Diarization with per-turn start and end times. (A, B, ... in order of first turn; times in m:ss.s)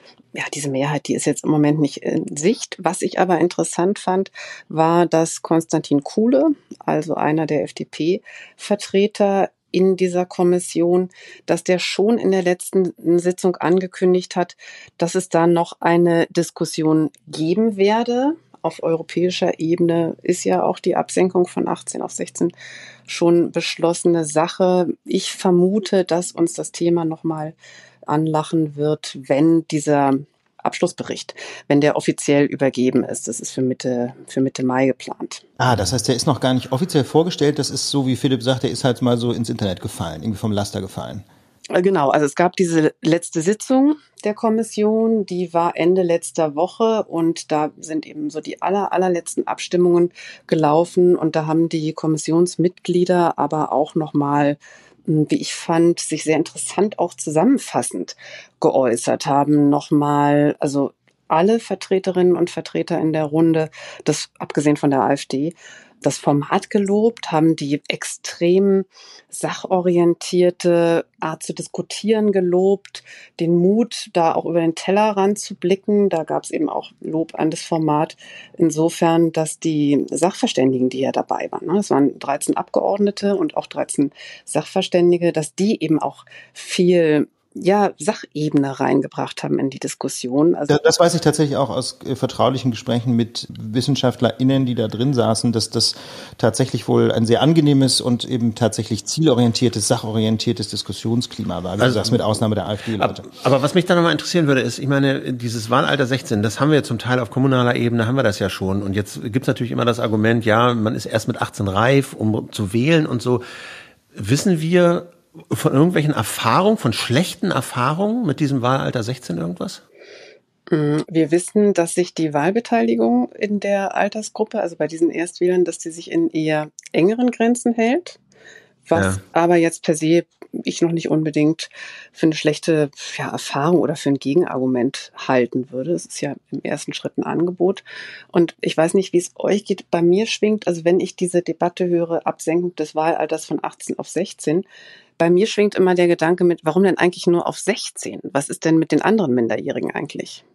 0:00.3-0:22.5 A
0:23.1-0:27.6 A
0:28.1-0:35.5 A
0:35.6-0:41.2 B
0:41.7-1:30.8 A
1:30.7-1:43.3 B
1:41.8-1:42.2 C
1:43.0-1:53.4 C
1:54.2-1:59.8 C
2:00.7-2:08.2 A
2:08.9-2:24.6 A
2:08.9-2:09.2 C
2:25.2-2:30.4 A